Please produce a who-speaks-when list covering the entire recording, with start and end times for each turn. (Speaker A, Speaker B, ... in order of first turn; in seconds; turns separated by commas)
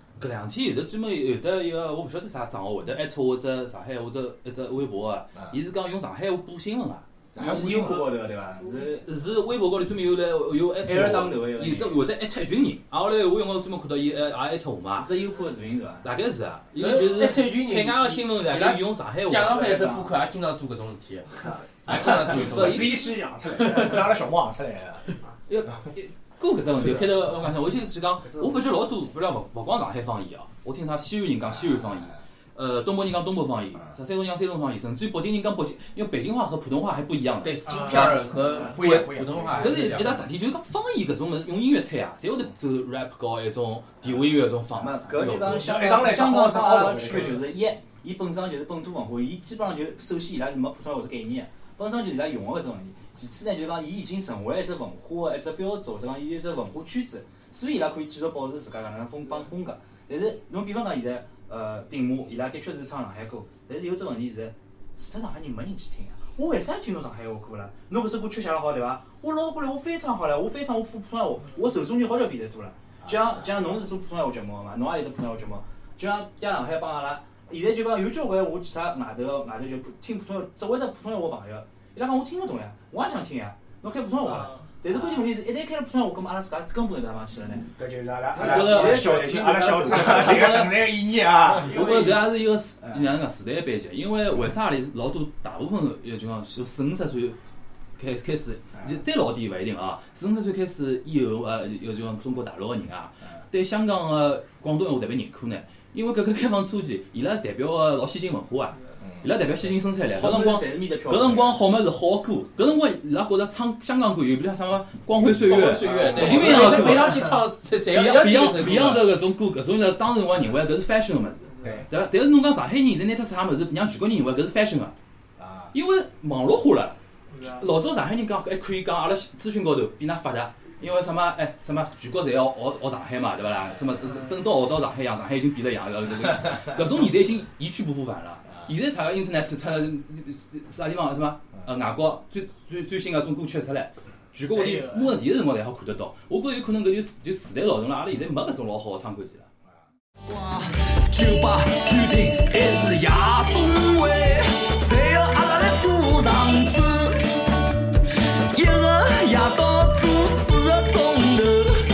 Speaker A: 0.2-7.0, Speaker B: 7.3-8.0, Speaker C: 7.4-9.1, Speaker A: 9.0-15.1, Speaker C: 10.8-12.0, Speaker C: 15.0-16.1, Speaker A: 16.0-19.6, Speaker D: 16.8-23.0, Speaker C: 19.5-20.1, Speaker B: 21.4-25.1, Speaker A: 22.5-23.0, Speaker A: 23.7-24.0, Speaker A: 25.5-38.3, Speaker B: 31.4-32.2, Speaker D: 37.4-40.2, Speaker B: 37.9-39.8, Speaker A: 39.6-46.0, Speaker B: 44.8-47.5, Speaker C: 44.8-87.7, Speaker B: 73.0-73.5, Speaker B: 84.3-85.3, Speaker B: 87.7-92.0, Speaker A: 88.3-89.2, Speaker C: 88.4-90.5, Speaker A: 89.9-90.9, Speaker A: 91.6-97.4, Speaker B: 92.8-93.2, Speaker A: 98.0-117.2, Speaker B: 98.8-99.0, Speaker B: 109.0-109.3, Speaker C: 110.2-111.6, Speaker D: 115.4-119.1, Speaker B: 115.9-116.8, Speaker A: 117.9-125.0, Speaker B: 121.6-121.9, Speaker B: 125.4-125.8, Speaker A: 125.7-149.5, Speaker E: 150.3-157.2, Speaker E: 158.5-161.7